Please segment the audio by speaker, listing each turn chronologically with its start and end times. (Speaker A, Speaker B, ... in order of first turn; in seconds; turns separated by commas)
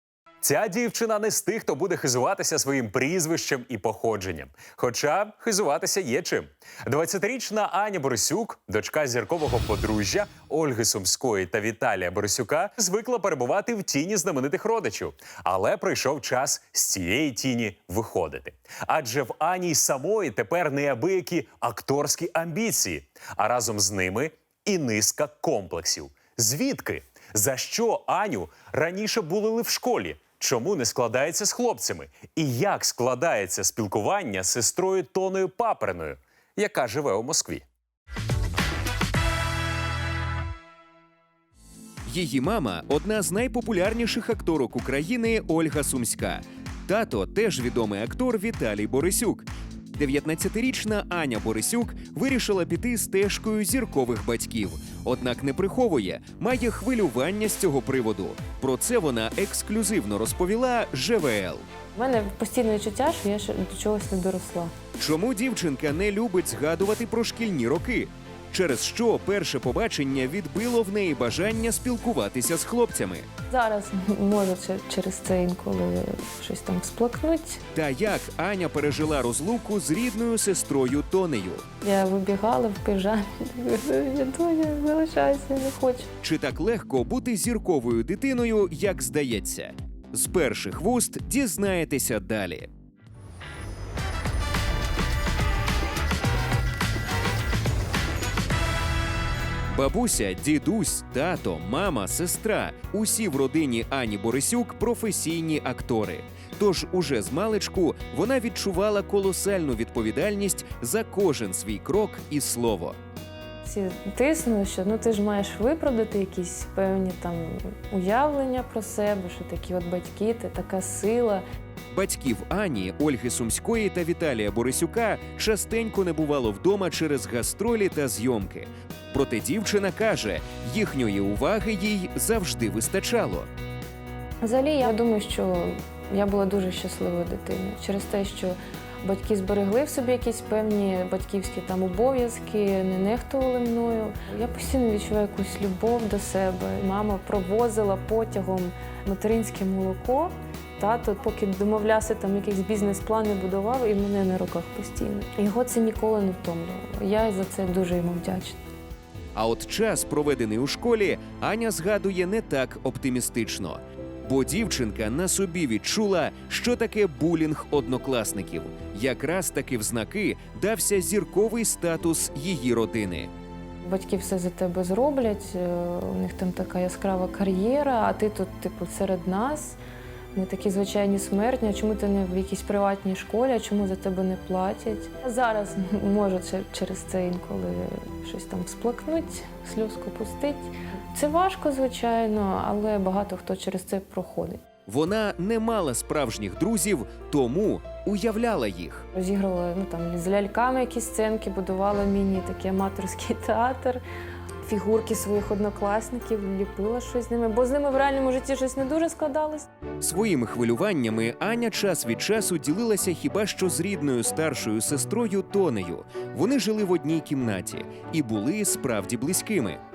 Speaker A: 0.4-37.6, Speaker B: 42.1-61.7, Speaker C: 61.9-64.7, Speaker B: 65.0-73.3, Speaker C: 73.5-77.6, Speaker B: 77.7-81.6, Speaker C: 81.8-86.1, Speaker B: 86.2-92.7, Speaker B: 99.7-113.0, Speaker C: 113.6-121.4, Speaker B: 121.9-133.5, Speaker C: 134.4-158.6, Speaker B: 159.3-173.3, Speaker C: 173.8-179.8, Speaker C: 180.3-194.6, Speaker B: 194.9-199.1, Speaker C: 199.1-204.0, Speaker C: 204.6-209.7, Speaker B: 210.0-219.8